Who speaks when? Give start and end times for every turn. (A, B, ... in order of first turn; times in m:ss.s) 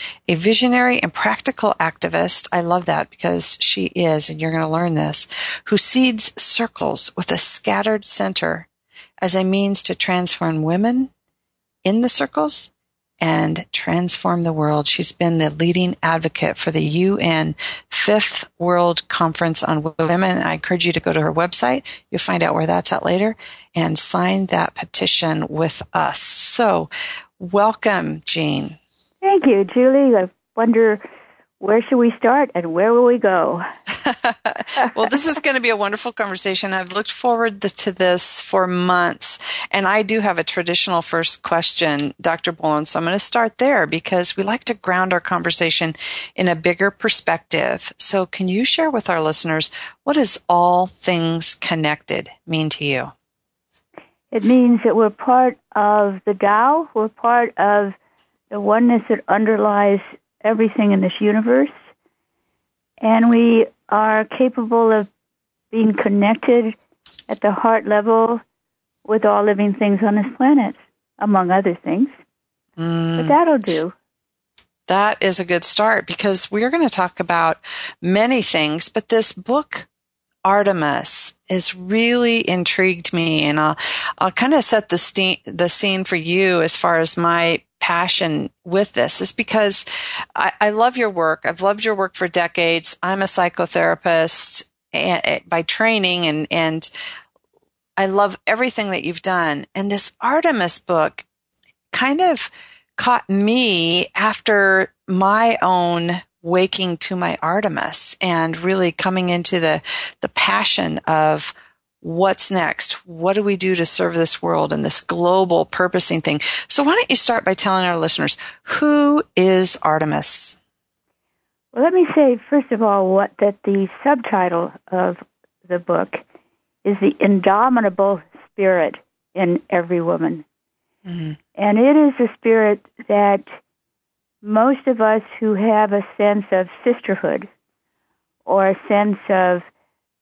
0:00.3-0:08.7 A
0:09.2-0:11.1 A
0:11.8-0:28.8 A
0:29.2-0:31.0 B
0:31.6-0:33.7 B
0:34.0-0:53.1 A
0:54.3-0:58.0 B
0:58.5-1:01.8 B
1:03.0-1:05.1 B
1:05.7-1:06.8 B
1:07.3-1:08.4 B
1:09.0-1:12.2 B
1:12.8-1:13.4 A
1:13.2-1:14.0 B
1:14.9-1:19.9 A
1:20.4-1:36.9 A
1:38.0-1:41.2 A
1:41.9-2:00.6 A
2:01.7-2:06.2 B
2:06.8-2:10.4 B
2:11.1-2:11.4 A
2:11.6-2:13.6 B
2:14.4-2:17.5 B
2:18.5-2:19.7 B